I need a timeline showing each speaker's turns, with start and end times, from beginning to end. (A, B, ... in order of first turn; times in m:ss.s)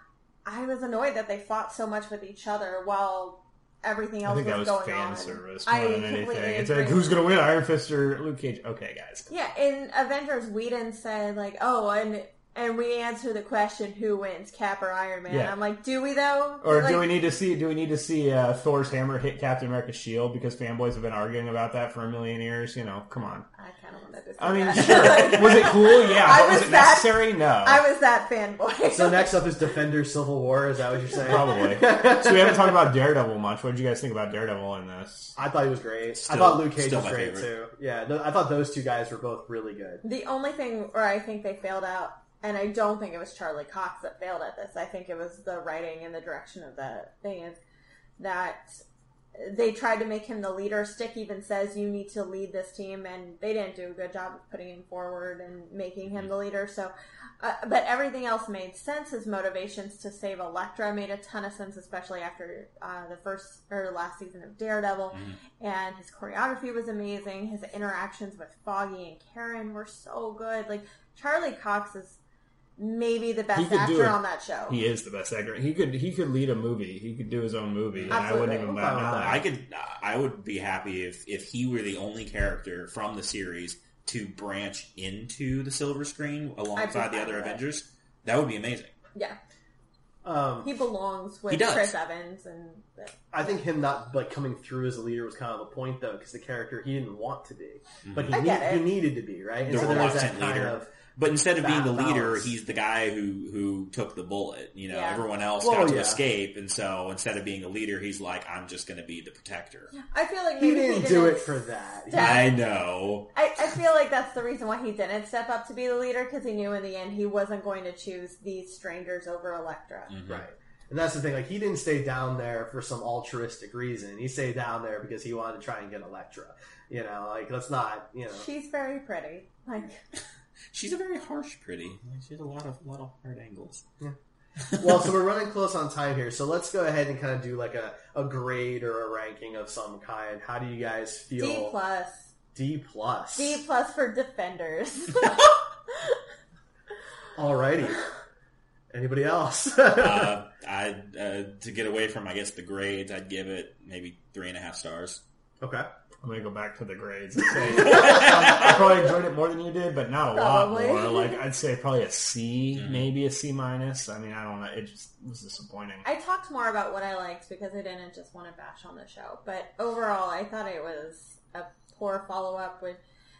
0:00.4-0:07.2 A
0:04.2-0:09.3 B
0:09.3-0:17.1 A
0:15.3-0:15.6 B
0:16.6-0:23.4 B
0:23.6-0:29.4 A
0:24.4-0:27.8 B
0:28.9-0:32.9 C
0:31.2-0:35.4 B
0:35.4-0:40.0 C
0:36.2-0:37.5 D
0:40.0-0:47.6 A
0:48.2-0:48.8 A
0:49.4-1:12.2 A
1:05.1-1:05.4 D
1:12.8-1:14.8 A
1:13.5-1:19.4 B
1:18.1-1:19.0 A
1:18.5-1:19.5 C
1:19.2-1:28.9 D
1:26.8-1:27.6 A
1:30.2-1:30.7 C
1:30.6-1:33.1 A
1:31.5-1:31.9 D
1:33.3-1:40.9 C
1:38.0-1:38.4 D
1:38.3-1:38.9 A
1:39.6-1:49.9 D
1:41.6-1:42.5 C
1:44.9-1:45.2 A
1:45.6-1:46.2 C
1:49.9-1:51.5 A
1:50.6-1:52.5 C
1:52.1-1:52.6 A
1:52.1-1:53.3 D
1:53.3-2:00.1 A
2:00.1-2:00.4 D
2:00.3-2:08.5 C
2:08.3-2:10.0 A
2:10.7-2:13.8 D
2:14.8-2:21.8 C
2:14.8-2:15.1 D
2:21.4-2:22.3 A
2:22.5-2:23.6 C
2:23.4-2:26.1 A
2:27.4-2:28.0 C
2:28.9-2:30.3 C
2:29.9-2:35.2 D
2:35.6-2:35.9 C
2:36.2-2:46.0 B
2:37.8-2:38.7 D
2:40.3-2:41.4 A
2:42.7-2:43.0 D
2:46.0-2:53.0 A